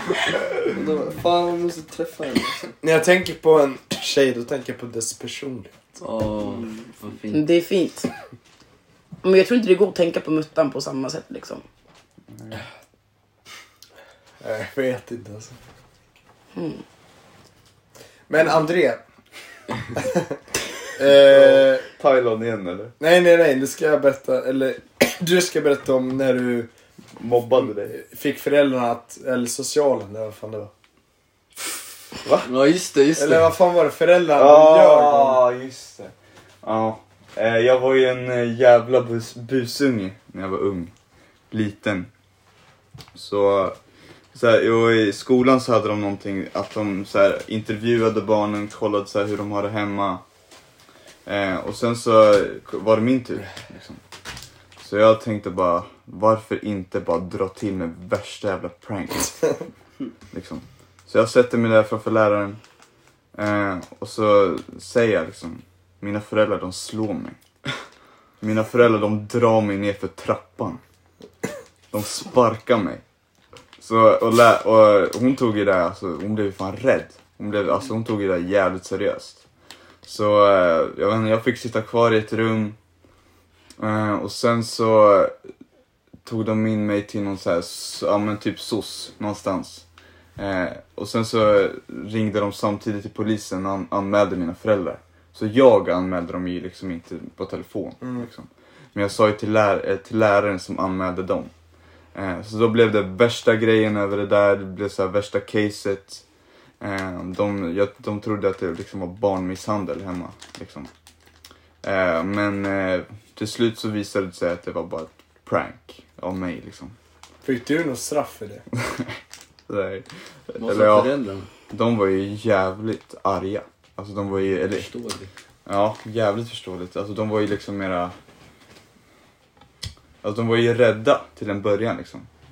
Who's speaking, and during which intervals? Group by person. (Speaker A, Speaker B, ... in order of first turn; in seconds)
Speaker A: 0.6-2.8, 6.4-6.9
Speaker B: 2.8-6.0, 14.4-15.6, 18.3-19.0, 20.9-21.9, 23.0-26.7, 27.9-30.7, 33.1-35.4, 98.0-98.3, 117.4-118.7
Speaker C: 6.0-7.5, 32.4-33.5, 120.6-121.5, 124.7-125.3
Speaker D: 7.3-8.1, 9.2-11.6, 16.5-16.8
Speaker E: 12.3-12.6, 21.1-22.9, 27.2-27.9, 34.3-40.9, 41.5-42.1, 43.1-43.8, 44.3-50.2, 51.2-54.0, 54.8-59.4, 60.3-62.6, 63.3-67.4, 68.4-70.8, 71.9-73.0, 73.8-79.4, 80.0-82.8, 83.8-85.3, 86.2-89.8, 90.4-101.5, 102.1-106.2, 106.8-110.9, 111.8-116.9, 118.8-119.1, 119.7-121.1, 121.7-124.9, 125.7-128.1, 130.2-132.3